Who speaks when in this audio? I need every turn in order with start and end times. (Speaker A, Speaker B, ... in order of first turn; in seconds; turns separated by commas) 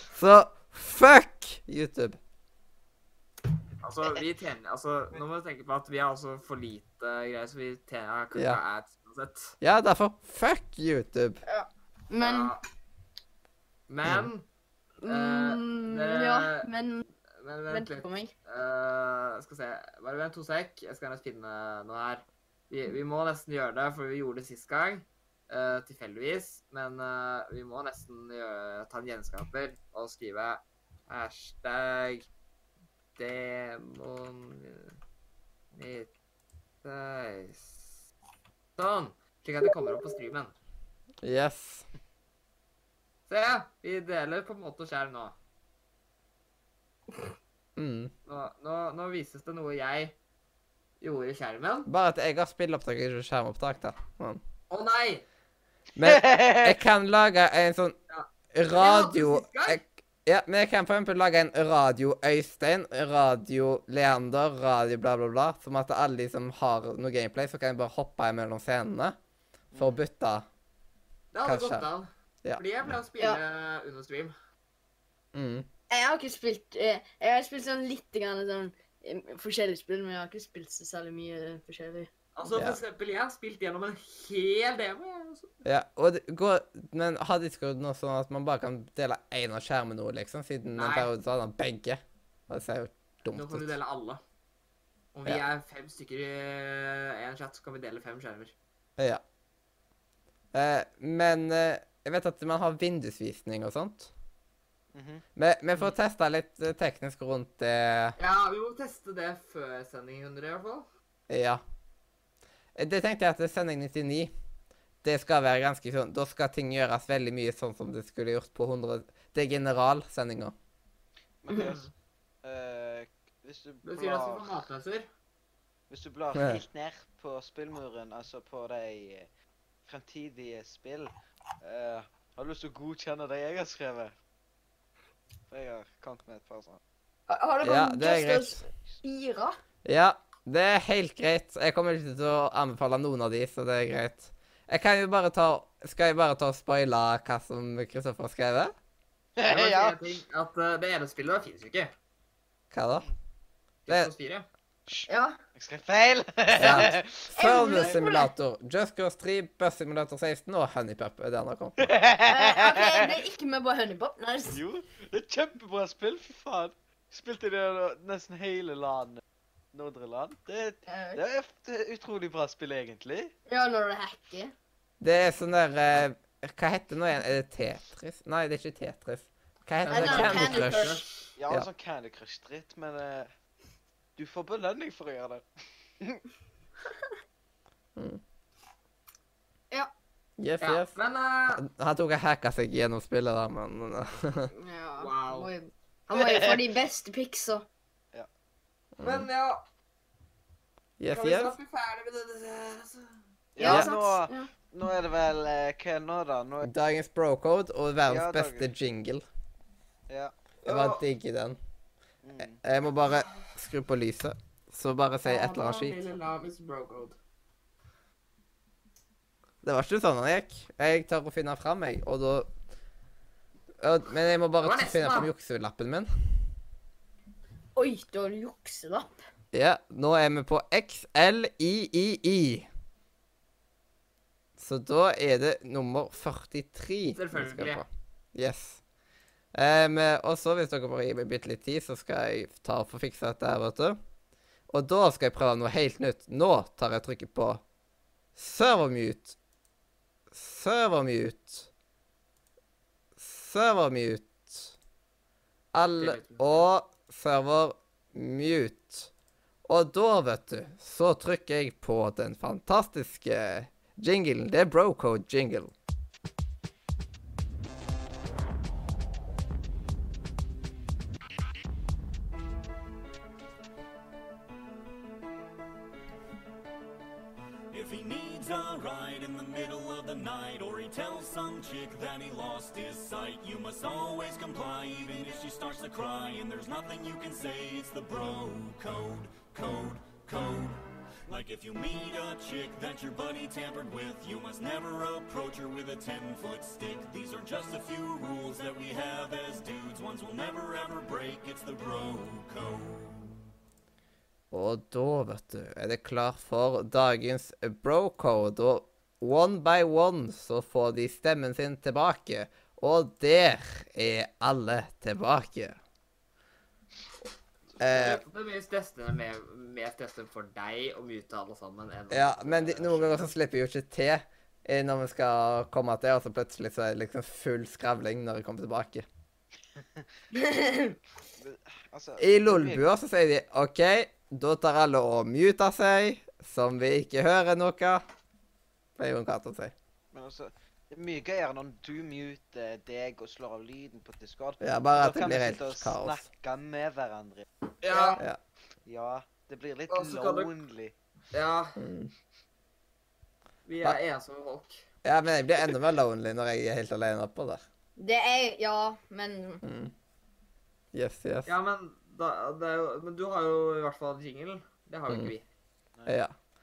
Speaker A: 0.1-2.2, Speaker B: 3.8-9.6, Speaker A: 8.3-8.6, Speaker A: 9.6-11.4, Speaker C: 11.4-12.5, Speaker B: 12.2-12.6, Speaker B: 13.9-14.5, Speaker B: 15.0-16.7, Speaker C: 15.0-17.1, Speaker B: 17.3-32.3, Speaker C: 17.7-18.3, Speaker B: 33.2-35.0, Speaker B: 35.7-36.1, Speaker B: 36.8-38.0, Speaker B: 38.8-40.5, Speaker A: 41.2-41.9, Speaker B: 43.3-45.3, Speaker A: 47.8-48.1, Speaker B: 48.3-50.1, Speaker B: 51.0-51.9, Speaker A: 51.9-54.4, Speaker B: 54.7-55.2, Speaker A: 56.0-58.0, Speaker D: 56.0-56.8, Speaker B: 58.1-59.8, Speaker A: 58.5-69.2, Speaker D: 69.7-70.0, Speaker A: 69.7-70.5, Speaker B: 71.3-74.3, Speaker A: 71.4-71.8, Speaker A: 75.3-75.7, Speaker C: 75.9-82.1, Speaker B: 82.3-85.5, Speaker A: 82.5-82.8, Speaker A: 85.6-93.7, Speaker B: 90.8-91.1, Speaker B: 93.2-94.2, Speaker B: 95.1-98.5, Speaker A: 99.0-99.2, Speaker A: 100.5-104.1, Speaker D: 104.9-105.2, Speaker A: 105.3-108.2, Speaker B: 108.2-110.9, Speaker A: 111.3-111.6, Speaker A: 112.8-114.3, Speaker A: 115.0-120.5, Speaker D: 121.4-121.9, Speaker B: 121.5-121.9, Speaker D: 122.4-124.5, Speaker B: 123.8-125.1, Speaker D: 125.9-129.3, Speaker A: 126.3-126.6, Speaker D: 129.8-134.2, Speaker D: 135.5-136.8, Speaker C: 137.3-139.6, Speaker A: 137.6-138.6, Speaker A: 139.8-148.7, Speaker D: 149.4-150.2, Speaker B: 149.4-151.9, Speaker A: 152.7-153.1, Speaker B: 153.9-154.5, Speaker D: 154.9-157.9, Speaker C: 155.1-155.4, Speaker A: 156.6-161.9, Speaker C: 157.3-158.3, Speaker D: 161.8-163.2, Speaker C: 162.2-164.6, Speaker D: 164.5-169.2, Speaker D: 169.7-173.3, Speaker C: 170.9-171.2, Speaker C: 173.5-174.5, Speaker A: 175.0-181.7, Speaker B: 179.8-181.3, Speaker C: 179.9-181.1, Speaker D: 181.3-183.3, Speaker D: 184.2-185.4, Speaker A: 187.9-188.2, Speaker A: 190.4-190.9, Speaker B: 190.6-191.7, Speaker A: 191.5-194.5, Speaker C: 194.6-197.7, Speaker B: 195.0-195.5, Speaker D: 196.1-196.6, Speaker A: 199.0-199.3, Speaker B: 199.0-199.6, Speaker A: 201.0-201.6, Speaker B: 201.1-203.1, Speaker D: 203.6-206.7, Speaker C: 203.6-204.5, Speaker A: 203.6-203.9, Speaker A: 206.6-209.2, Speaker D: 208.1-208.7, Speaker B: 210.6-211.0, Speaker A: 210.7-211.6, Speaker D: 212.2-212.6, Speaker A: 212.4-216.0, Speaker C: 215.2-216.2, Speaker B: 215.7-217.1, Speaker A: 219.6-222.5, Speaker A: 223.8-226.1, Speaker B: 224.6-225.3, Speaker C: 227.7-229.1, Speaker A: 229.5-232.7, Speaker A: 234.6-238.8, Speaker B: 237.1-237.8, Speaker A: 239.5-244.0, Speaker A: 244.7-247.6, Speaker A: 248.3-249.3, Speaker A: 250.3-251.7, Speaker A: 253.2-254.7, Speaker A: 255.7-259.1, Speaker B: 255.9-256.7, Speaker A: 259.6-265.7, Speaker E: 277.7-303.4, Speaker A: 304.5-315.8, Speaker A: 317.8-318.2, Speaker B: 317.8-323.3, Speaker A: 322.1-329.1, Speaker C: 330.3-331.0, Speaker D: 331.4-332.8, Speaker A: 332.2-338.0, Speaker A: 339.0-339.7, Speaker D: 340.1-347.5, Speaker A: 344.6-346.2, Speaker B: 347.8-348.2, Speaker C: 347.9-348.2, Speaker D: 348.9-350.9, Speaker B: 349.9-350.5, Speaker B: 351.3-351.8, Speaker A: 351.8-352.1, Speaker B: 353.6-354.8, Speaker A: 355.0-357.6, Speaker C: 358.0-359.6, Speaker A: 359.6-359.9, Speaker A: 360.9-361.5, Speaker B: 361.4-365.4, Speaker A: 366.1-366.3